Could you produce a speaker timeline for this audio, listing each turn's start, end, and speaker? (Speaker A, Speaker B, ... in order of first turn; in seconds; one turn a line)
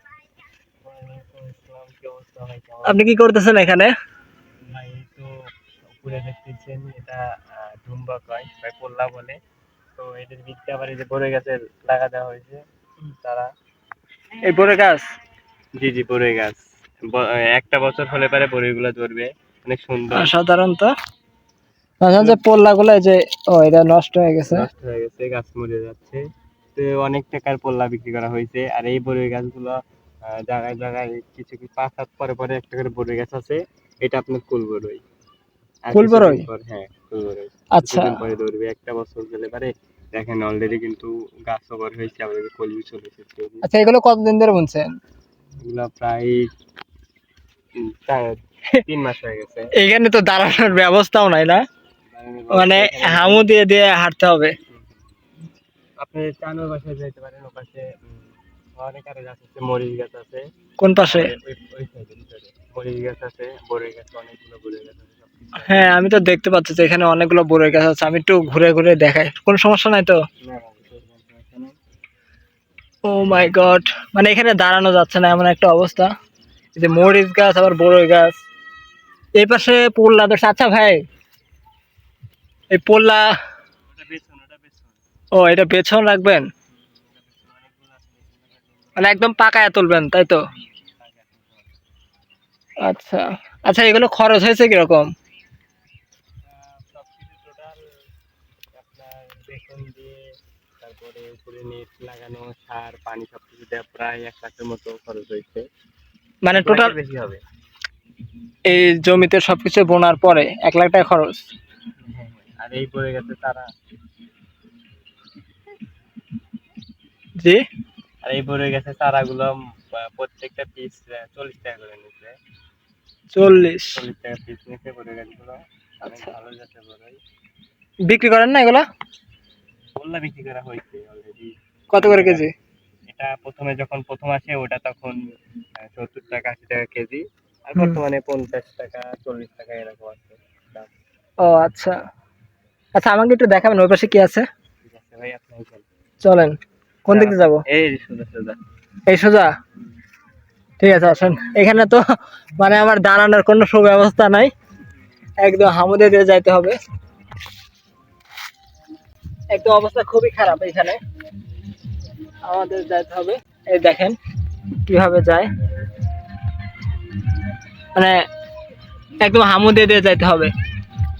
Speaker A: 0.8-3.1
Speaker B: 2.8-3.9
Speaker A: 4.7-9.4
Speaker A: 10.0-12.6
Speaker A: 13.2-13.5
Speaker B: 14.4-15.0
Speaker A: 15.8-20.3
Speaker B: 20.1-20.9
Speaker B: 22.0-24.7
Speaker A: 24.5-26.2
Speaker A: 26.7-35.0
Speaker A: 35.8-43.6
Speaker B: 35.9-36.5
Speaker B: 37.7-38.2
Speaker B: 43.6-44.9
Speaker A: 45.6-46.5
Speaker A: 47.8-49.7
Speaker B: 49.8-51.6
Speaker A: 52.1-53.5
Speaker B: 52.5-54.5
Speaker A: 54.7-55.1
Speaker A: 56.0-60.4
Speaker B: 60.8-61.3
Speaker A: 61.0-65.9
Speaker B: 65.6-70.2
Speaker A: 70.4-71.8
Speaker B: 73.1-76.1
Speaker B: 76.8-78.4
Speaker B: 79.4-81.0
Speaker B: 82.7-83.3
Speaker A: 83.9-85.0
Speaker B: 85.3-86.5
Speaker A: 86.7-89.2
Speaker B: 89.0-90.4
Speaker A: 91.0-91.7
Speaker B: 92.8-95.1
Speaker A: 96.5-97.8
Speaker A: 98.7-100.2
Speaker A: 100.8-105.7
Speaker B: 106.4-106.9
Speaker A: 106.5-107.4
Speaker B: 108.7-111.4
Speaker A: 112.0-113.6
Speaker A: 118.2-122.3
Speaker B: 123.3-124.0
Speaker A: 123.9-127.2
Speaker B: 128.1-128.8
Speaker A: 129.9-132.4
Speaker B: 131.9-132.5
Speaker A: 133.1-135.2
Speaker A: 135.8-140.9
Speaker B: 141.4-141.9
Speaker B: 142.9-144.4
Speaker A: 144.8-145.8
Speaker B: 146.2-146.6
Speaker B: 147.1-147.6
Speaker A: 147.1-148.6
Speaker B: 149.1-149.5
Speaker B: 150.8-152.0
Speaker B: 152.6-154.5
Speaker B: 155.4-156.8
Speaker B: 159.5-161.0
Speaker B: 162.5-164.2
Speaker B: 164.9-165.5
Speaker B: 169.2-170.5